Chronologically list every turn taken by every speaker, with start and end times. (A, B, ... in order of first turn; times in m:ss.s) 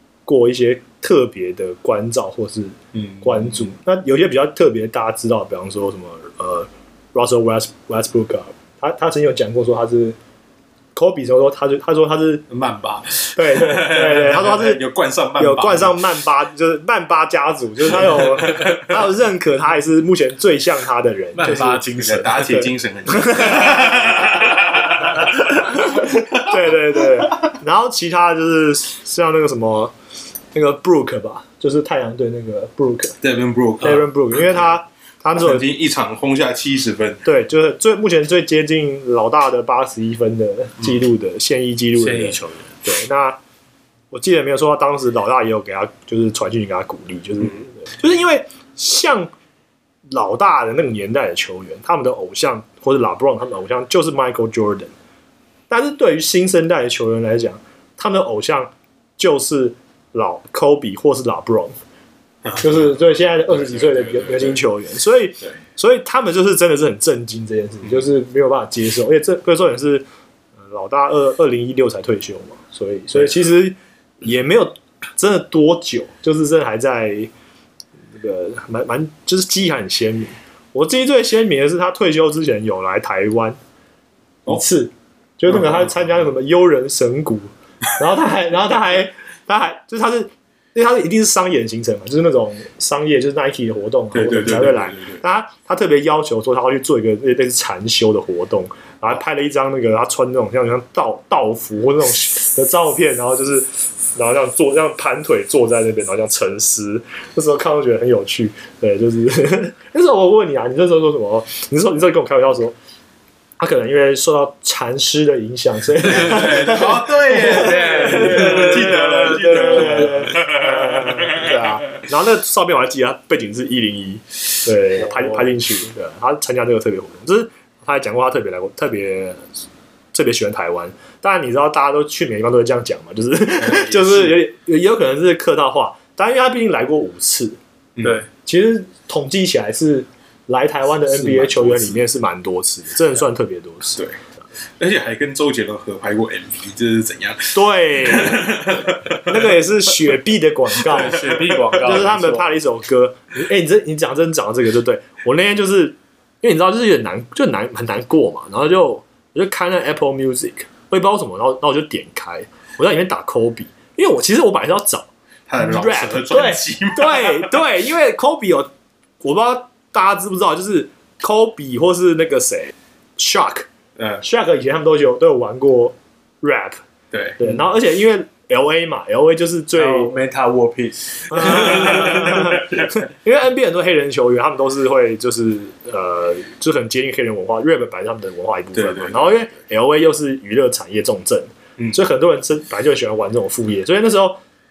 0:00.2-0:10.2 A
0:10.9-0:12.4 A
0:12.5-0:16.0 B
0:13.3-0:14.8 A
0:15.4-0:21.8 A
0:21.4-0:22.7 C
0:21.9-0:26.3 B
0:23.1-0:23.6 A
0:25.3-0:29.9 A
0:30.5-0:33.2 A
0:33.2-0:34.6 B
0:33.8-0:35.7 A
0:35.4-0:37.2 B
0:37.2-0:43.4 A
0:41.9-0:42.7 C
0:44.1-0:49.3 A
0:50.1-0:54.9 A
0:55.7-1:01.8 A
1:02.4-1:04.6 B
1:02.6-1:10.0 A
1:10.6-1:17.3 A
1:18.1-1:23.6 A
1:24.5-1:52.8 A
1:34.1-1:35.2 B
1:53.6-2:09.5 A
1:56.0-2:01.6 B
1:57.6-1:58.6 C
2:10.1-2:17.6 A
2:13.6-2:14.4 B
2:18.4-2:24.0 A
2:21.1-2:22.0 B
2:24.8-2:29.4 B
2:27.5-2:28.5 A
2:29.2-2:31.2 A
2:30.8-2:32.5 C
2:31.1-2:31.8 B
2:31.8-2:45.1 A
2:45.5-2:47.5 B
2:45.6-2:48.7 A
2:49.2-2:53.7 A
2:54.2-2:56.8 A
2:57.1-2:57.4 B
2:57.4-3:00.1 A
2:59.8-3:02.6 C
3:01.3-3:14.4 A
3:08.7-3:09.3 B